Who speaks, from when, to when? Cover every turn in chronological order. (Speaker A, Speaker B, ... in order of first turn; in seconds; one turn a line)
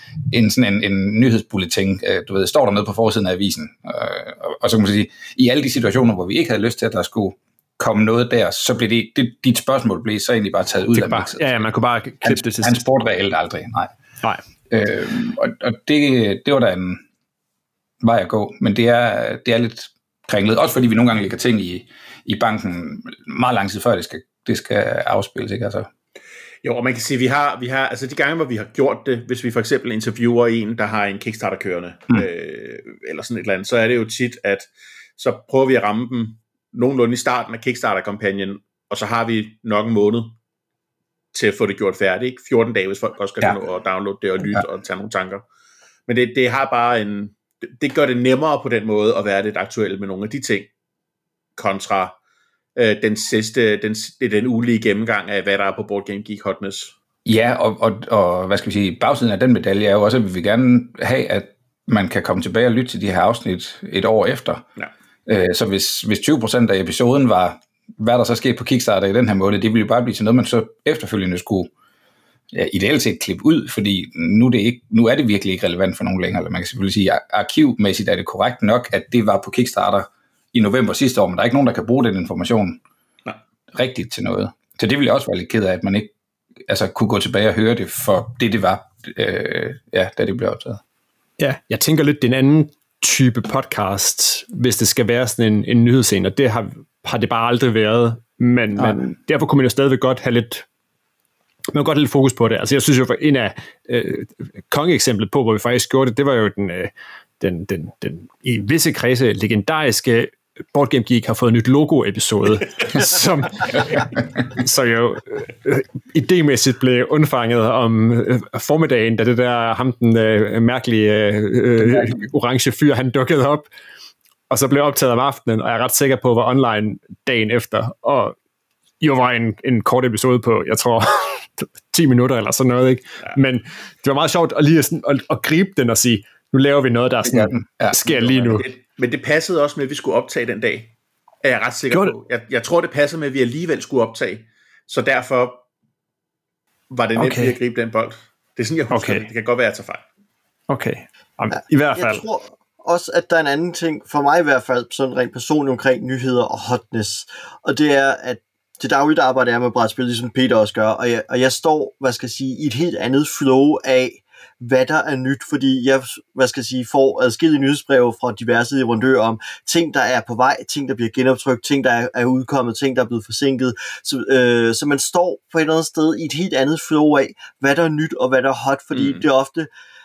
Speaker A: 0.3-11.6
Speaker B: 10.9-12.8
Speaker A: 12.2-13.9
Speaker A: 14.7-17.0
Speaker A: 18.0-25.9
Speaker C: 26.6-40.3
Speaker C: 41.3-45.4
Speaker C: 46.1-50.7
Speaker C: 51.6-52.1
Speaker C: 52.8-56.9
Speaker A: 57.3-64.7
Speaker A: 65.3-71.7
Speaker A: 72.5-82.8
Speaker A: 83.7-86.1
Speaker A: 86.7-90.8
Speaker B: 91.4-100.6
Speaker B: 101.7-123.7
Speaker A: 121.8-122.2
Speaker B: 124.5-128.4
Speaker B: 129.0-138.6
Speaker A: 137.2-138.1
Speaker C: 138.1-140.9
Speaker C: 141.4-145.6
Speaker C: 146.9-150.0
Speaker B: 147.2-147.6
Speaker B: 148.9-149.2
Speaker B: 150.7-152.2
Speaker D: 151.9-179.7
Speaker C: 178.9-179.2